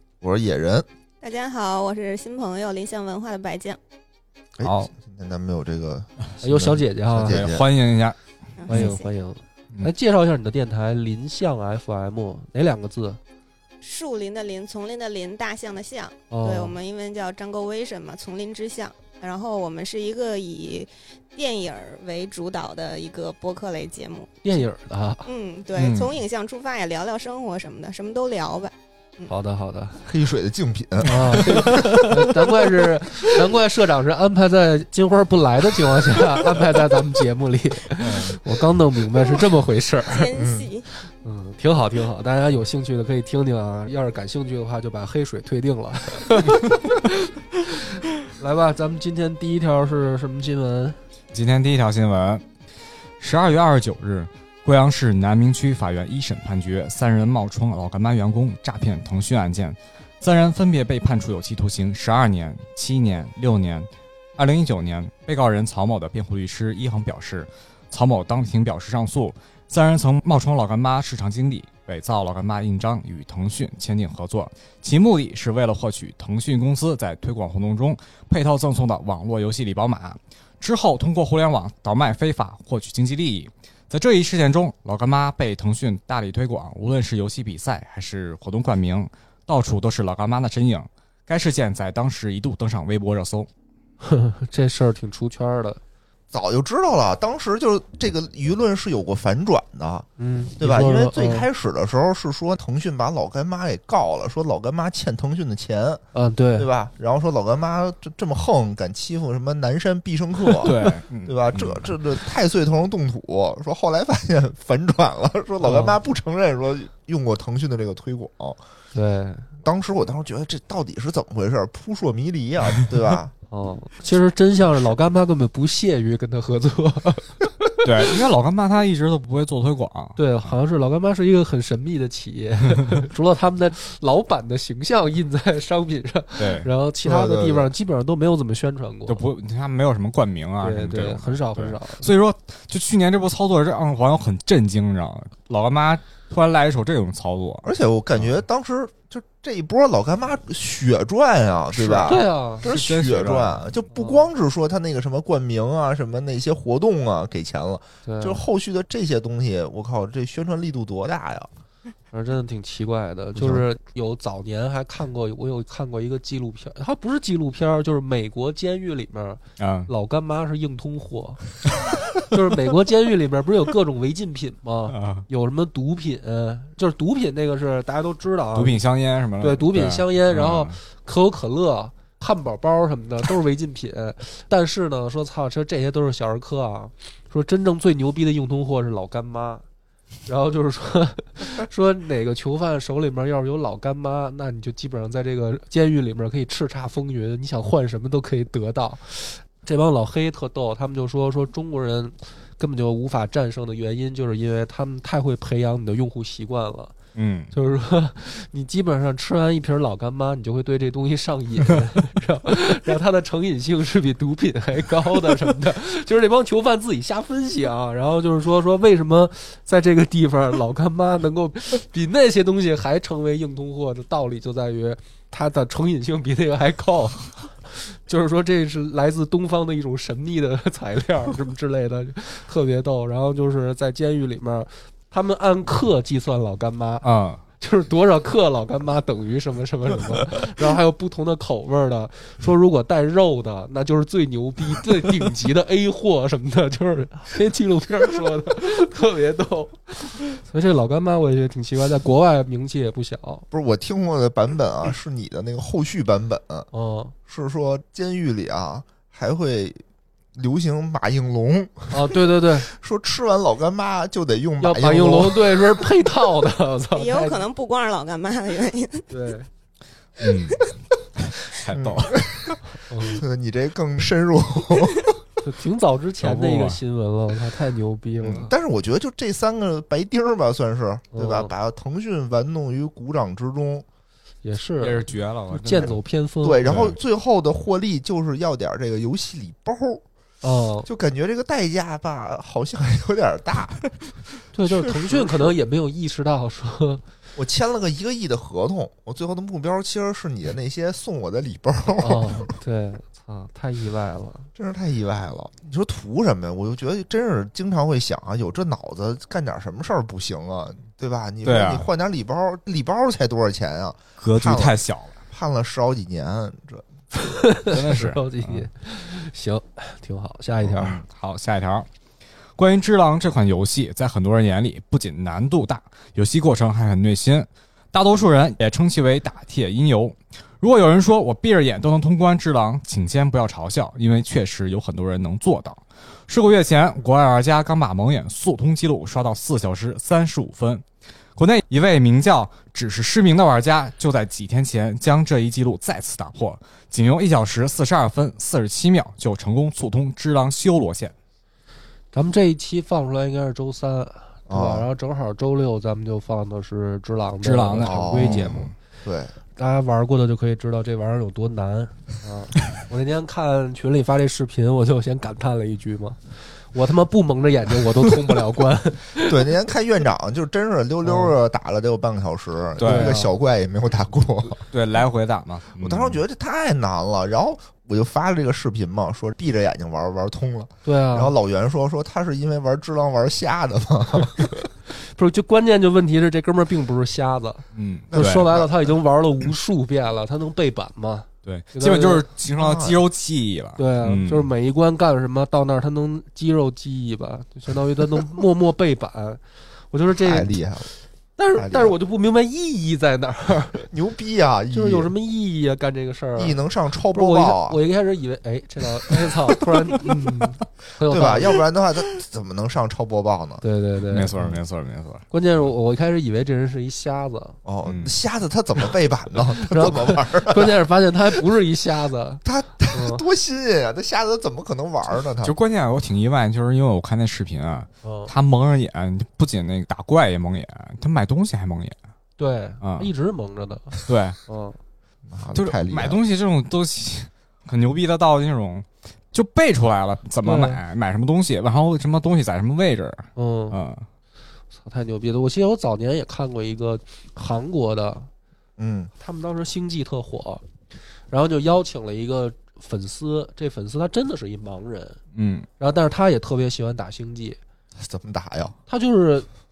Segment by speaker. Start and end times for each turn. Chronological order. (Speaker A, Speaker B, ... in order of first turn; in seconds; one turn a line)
Speaker A: 0.2-0.9
Speaker B: 1.2-3.8
Speaker A: 4.6-7.6
Speaker C: 4.6-4.9
Speaker D: 6.4-7.4
Speaker C: 7.2-8.2
Speaker B: 8.6-9.1
Speaker D: 8.7-13.2
Speaker C: 8.7-8.9
Speaker B: 13.8-24.3
Speaker D: 16.3-16.8
Speaker D: 24.4-25.3
Speaker B: 25.2-29.3
Speaker C: 25.8-26.2
Speaker D: 29.3-30.1
Speaker A: 30.1-32.6
Speaker D: 31.1-40.3
Speaker C: 38.0-38.4
Speaker B: 40.1-40.9
Speaker A: 40.4-40.7
Speaker D: 41.2-51.0
Speaker C: 51.3-52.4
Speaker C: 53.2-93.5
Speaker D: 94.0-95.8
Speaker A: 96.3-100.1
Speaker D: 100.2-101.5
Speaker A: 100.6-106.0
Speaker D: 106.1-106.7
Speaker A: 106.6-118.6
Speaker C: 110.6-111.9
Speaker D: 115.6-116.0
Speaker D: 118.9-119.5
Speaker A: 119.6-123.3
Speaker D: 123.5-127.7
Speaker C: 127.8-130.5
Speaker D: 130.2-139.2
Speaker C: 136.4-136.7
Speaker A: 137.0-137.7
Speaker C: 139.1-148.3
Speaker D: 140.6-142.1
Speaker A: 147.6-161.5
Speaker C: 151.8-153.7
Speaker D: 152.0-152.7
Speaker D: 153.9-154.3
Speaker D: 158.0-158.4
Speaker D: 162.1-171.5
Speaker A: 163.3-163.7
Speaker C: 169.6-169.9
Speaker D: 172.2-178.8
Speaker C: 174.9-175.2
Speaker C: 178.5-180.8
Speaker D: 179.4-189.7
Speaker D: 190.2-206.9
Speaker C: 207.2-207.5
Speaker D: 207.5-237.1
Speaker C: 237.0-237.4
Speaker D: 237.6-253.5
Speaker A: 253.5-256.7
Speaker D: 256.7-257.1
Speaker A: 257.3-259.8
Speaker A: 260.4-265.6
Speaker D: 261.9-262.7
Speaker D: 264.6-267.5
Speaker B: 266.9-269.1
Speaker D: 269.1-269.5
Speaker C: 270.2-270.6
Speaker C: 271.2-272.3
Speaker A: 271.7-275.2
Speaker D: 272.9-273.2
Speaker D: 275.4-278.5
Speaker C: 276.2-276.8
Speaker A: 278.2-283.9
Speaker D: 281.1-281.5
Speaker D: 284.4-286.9
Speaker C: 284.8-286.0
Speaker A: 285.8-290.0
Speaker C: 286.6-287.0
Speaker D: 290.4-290.9
Speaker A: 290.9-294.3
Speaker D: 294.5-297.0
Speaker A: 295.0-295.5
Speaker A: 297.4-302.5
Speaker D: 302.0-304.5
Speaker A: 304.5-314.8
Speaker C: 311.4-311.9
Speaker C: 314.2-315.2
Speaker A: 315.3-317.3
Speaker D: 317.4-321.0
Speaker C: 317.6-318.7
Speaker C: 320.6-321.9
Speaker C: 322.6-340.8
Speaker C: 341.4-351.1
Speaker D: 352.1-358.7
Speaker A: 354.5-354.9
Speaker C: 357.4-358.7
Speaker A: 357.8-359.3
Speaker D: 359.6-369.3
Speaker A: 369.2-374.6
Speaker D: 371.0-371.4
Speaker C: 372.8-373.2
Speaker D: 372.8-373.3
Speaker C: 374.7-376.2
Speaker A: 375.8-384.7
Speaker D: 380.8-381.4
Speaker D: 384.9-392.2
Speaker C: 387.7-388.5
Speaker A: 388.1-389.0
Speaker C: 391.4-394.5
Speaker A: 392.5-393.0
Speaker D: 393.8-400.6
Speaker A: 400.1-400.9
Speaker D: 401.4-403.9
Speaker A: 401.6-402.0
Speaker A: 403.9-405.1
Speaker D: 404.7-406.6
Speaker A: 406.4-407.8
Speaker D: 407.1-411.6
Speaker A: 411.0-413.6
Speaker D: 413.6-414.4
Speaker C: 414.1-415.2
Speaker D: 415.3-417.6
Speaker A: 417.6-420.8
Speaker C: 417.8-418.1
Speaker D: 419.6-422.4
Speaker A: 422.4-425.5
Speaker D: 422.9-423.2
Speaker C: 425.4-432.0
Speaker D: 428.0-428.3
Speaker D: 432.4-434.8
Speaker C: 432.8-433.1
Speaker C: 434.0-434.4
Speaker A: 435.3-436.2
Speaker C: 435.5-444.1
Speaker D: 440.4-440.8
Speaker D: 443.4-443.8
Speaker D: 444.7-448.3
Speaker A: 448.8-449.1
Speaker D: 449.2-450.6
Speaker D: 451.3-455.2
Speaker C: 455.3-455.7
Speaker D: 455.8-457.6
Speaker A: 458.0-458.8
Speaker D: 458.9-459.5